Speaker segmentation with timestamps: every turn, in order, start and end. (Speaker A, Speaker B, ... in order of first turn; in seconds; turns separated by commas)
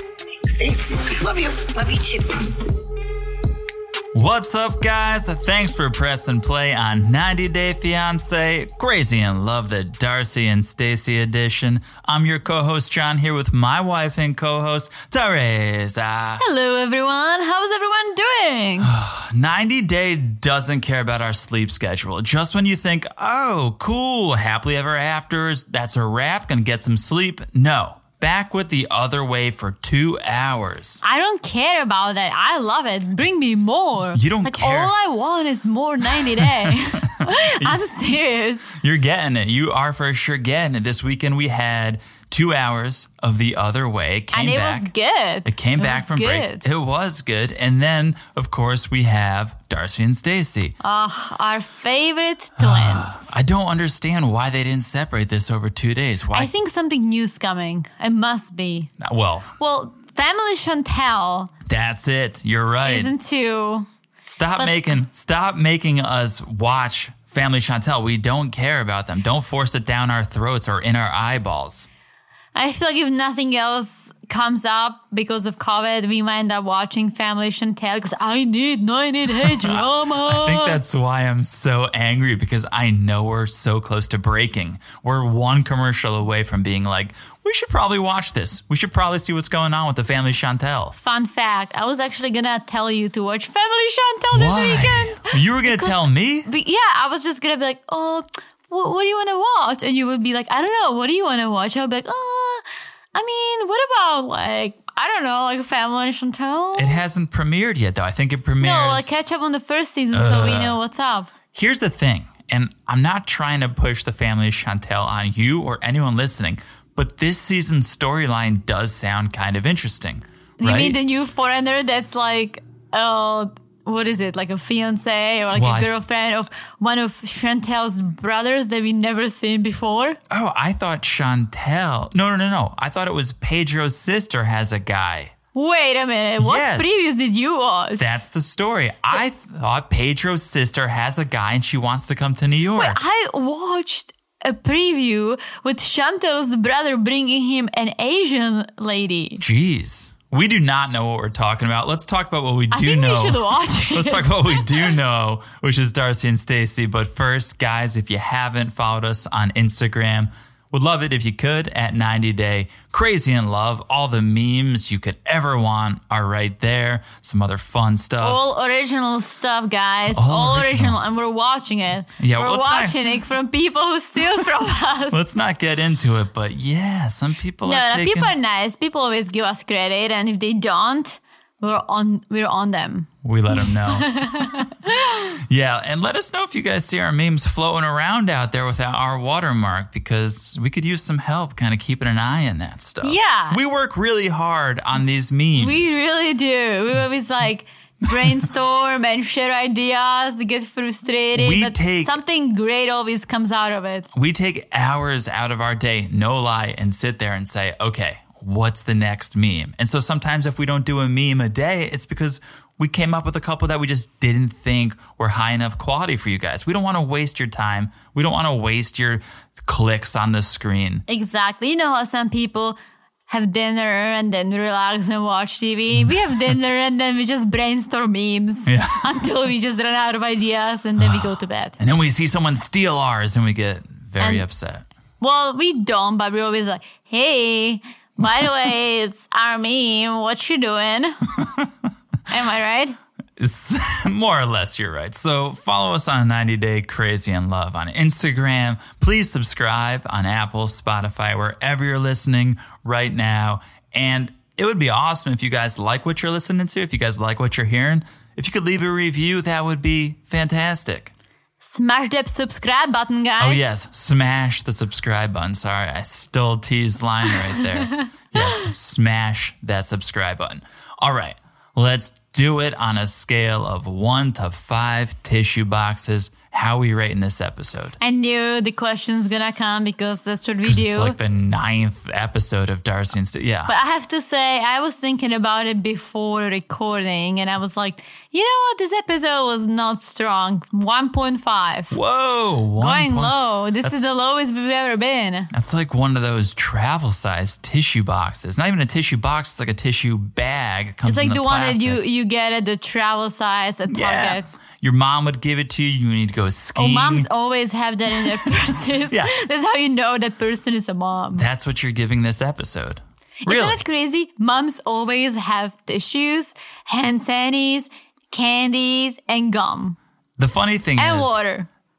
Speaker A: 0.4-2.5, Speaker B: 4.1-16.4, Speaker C: 16.4-18.9, Speaker B: 18.8-31.0, Speaker C: 31.0-38.7, Speaker B: 34.1-34.9, Speaker B: 36.1-37.8, Speaker B: 38.8-44.9, Speaker C: 44.3-46.7, Speaker B: 45.5-50.8, Speaker C: 50.8-53.3, Speaker B: 52.6-56.5, Speaker C: 56.3-58.9, Speaker B: 59.0-59.5, Speaker C: 59.6-61.5, Speaker B: 61.7-63.1, Speaker C: 62.7-63.9, Speaker B: 64.3-71.9, Speaker C: 64.6-65.0, Speaker C: 72.5-80.8, Speaker B: 79.4-91.0, Speaker C: 91.0-107.0, Speaker B: 94.3-96.5, Speaker B: 106.8-109.2, Speaker C: 108.6-111.3, Speaker B: 110.1-110.8, Speaker B: 111.5-121.0, Speaker C: 120.6-130.2, Speaker B: 125.5-125.9, Speaker B: 130.3-135.3, Speaker C: 135.6-138.1, Speaker B: 136.4-137.0, Speaker B: 138.0-143.0, Speaker C: 142.7-149.4, Speaker B: 149.4-168.4, Speaker C: 152.7-154.9, Speaker C: 168.2-175.2, Speaker B: 170.1-171.0, Speaker B: 172.2-173.0, Speaker B: 175.1-178.3, Speaker C: 177.6-185.4, Speaker B: 183.2-184.7, Speaker B: 185.2-196.0, Speaker C: 193.0-193.6, Speaker C: 195.6-204.1, Speaker B: 201.3-202.2, Speaker B: 204.1-221.0, Speaker C: 221.1-231.8, Speaker B: 228.7-229.2, Speaker B: 231.0-231.3, Speaker B: 231.8-234.8, Speaker C: 234.2-234.4, Speaker C: 235.2-241.3, Speaker B: 241.4-241.7, Speaker C: 242.3-243.0, Speaker B: 243.4-261.1, Speaker C: 261.6-263.7, Speaker B: 263.4-278.0, Speaker C: 267.9-268.5, Speaker C: 278.0-281.2, Speaker B: 280.6-283.8, Speaker C: 283.7-292.0, Speaker B: 291.9-294.1, Speaker C: 292.8-295.5, Speaker B: 295.5-302.0, Speaker C: 301.0-304.5, Speaker B: 303.9-307.3, Speaker C: 306.8-311.4, Speaker B: 311.4-313.8, Speaker C: 313.4-320.0, Speaker B: 320.4-321.4, Speaker C: 321.0-321.7